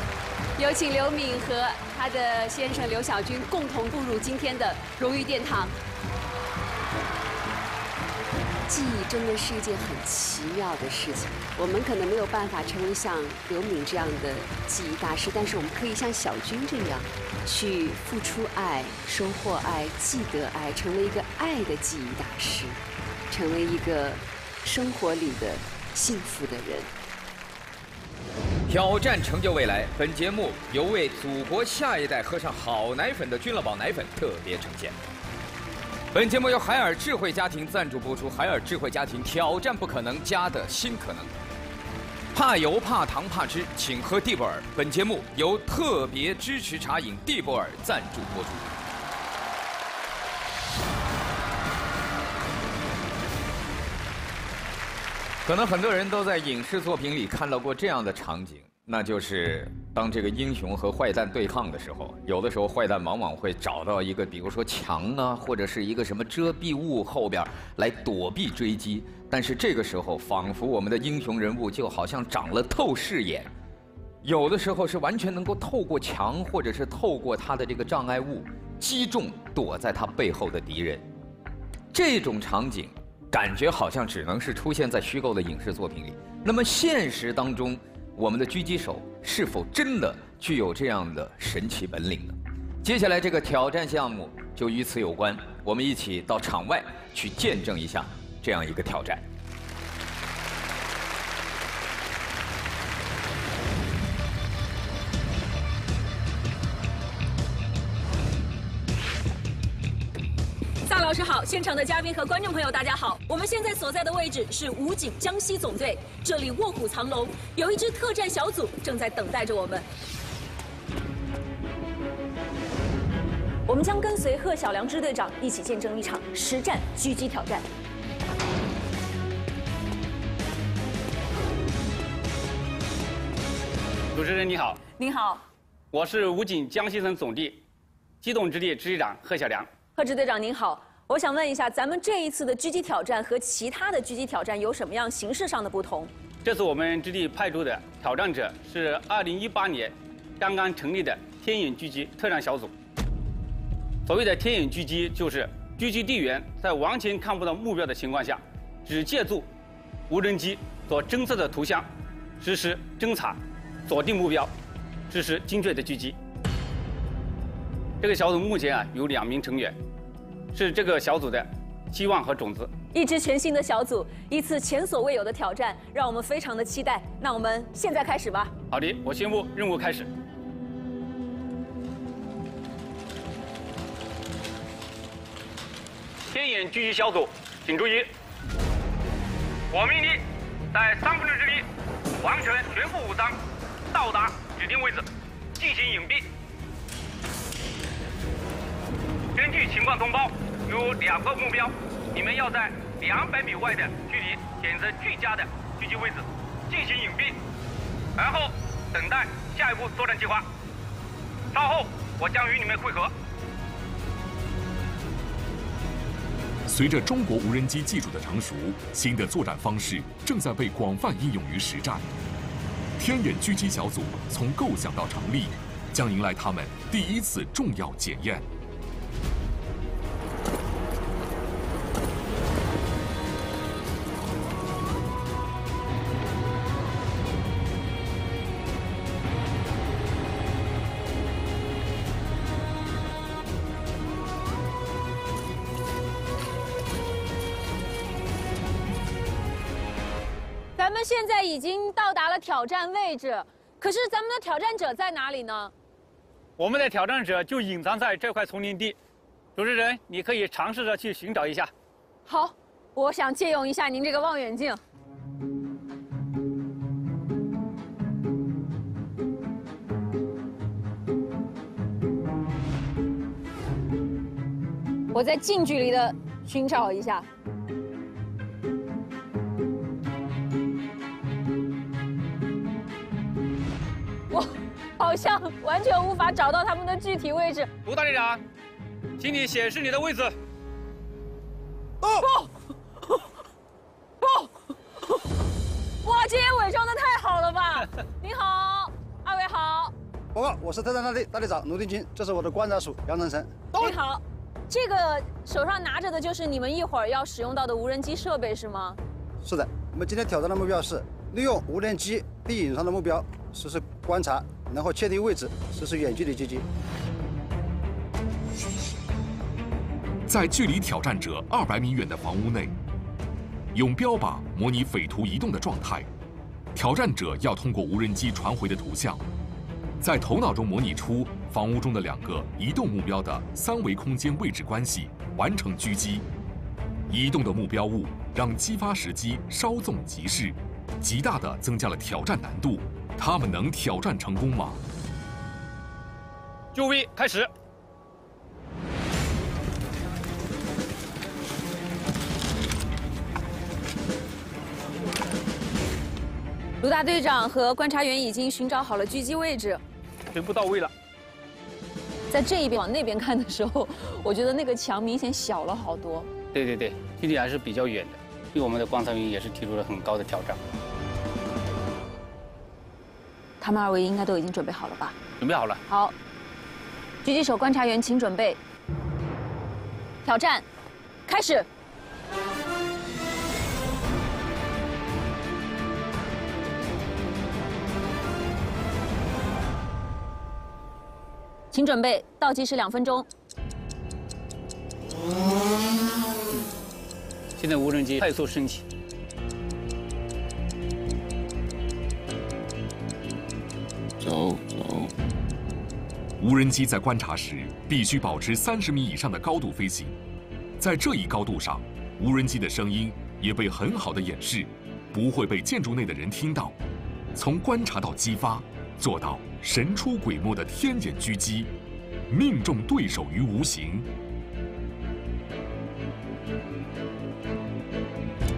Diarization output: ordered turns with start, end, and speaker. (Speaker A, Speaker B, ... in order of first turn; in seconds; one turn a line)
Speaker A: 0.6-5.8
Speaker A: 8.7-26.9
Speaker B: 28.7-35.0
Speaker B: 36.1-41.3
Speaker B: 42.3-48.7
Speaker B: 55.4-73.5
Speaker B: 74.2-81.0
Speaker B: 81.9-99.2
Speaker C: 110.8-119.8
Speaker C: 123.7-127.6
Speaker D: 134.1-134.8
Speaker C: 134.9-135.4
Speaker D: 135.9-137.6
Speaker D: 138.2-139.8
Speaker C: 139.9-146.1
Speaker D: 146.4-152.7
Speaker D: 154.1-159.5
Speaker D: 160.1-161.9
Speaker D: 162.4-164.5
Speaker D: 165.1-166.2
Speaker D: 168.0-169.8
Speaker D: 170.5-172.7
Speaker C: 172.9-178.5
Speaker D: 178.7-180.1
Speaker D: 186.3-188.1
Speaker D: 189.7-190.2
Speaker D: 190.7-191.7
Speaker D: 192.2-193.4
Speaker D: 193.9-195.1
Speaker D: 195.6-196.3
Speaker D: 199.3-207.4
Speaker D: 208.2-210.4
Speaker D: 211.5-213.1
Speaker E: 216.7-222.1
Speaker E: 223.0-228.4
Speaker C: 250.8-255.7
Speaker D: 256.6-259.0
Speaker D: 259.6-261.7
Speaker C: 262.2-264.8
Speaker C: 275.1-277.2
Speaker C: 284.3-287.7
Speaker D: 287.8-288.4
Speaker D: 289.2-290.3
Speaker C: 296.0-299.9
Speaker F: 300.3-303.5
Speaker C: 303.7-309.0
Speaker F: 309.4-316.6
Speaker E: 320.2-322.7
Speaker E: 323.7-326.1
Speaker E: 326.7-329.2
Speaker E: 330.0-336.2
Speaker E: 337.1-344.8
Speaker D: 346.7-347.5
Speaker C: 356.8-359.8
Speaker D: 360.3-360.9
Speaker C: 362.3-366.3
Speaker D: 366.5-370.6
Speaker C: 373.6-375.2
Speaker D: 375.4-375.8
Speaker C: 375.9-376.1
Speaker C: 377.2-378.6
Speaker C: 380.2-380.6
Speaker C: 381.3-381.6
Speaker C: 391.7-393.3
Speaker D: 397.6-398.8
Speaker E: 406.4-410.1
Speaker E: 410.8-416.8
Speaker E: 417.3-421.7
Speaker E: 422.3-424.1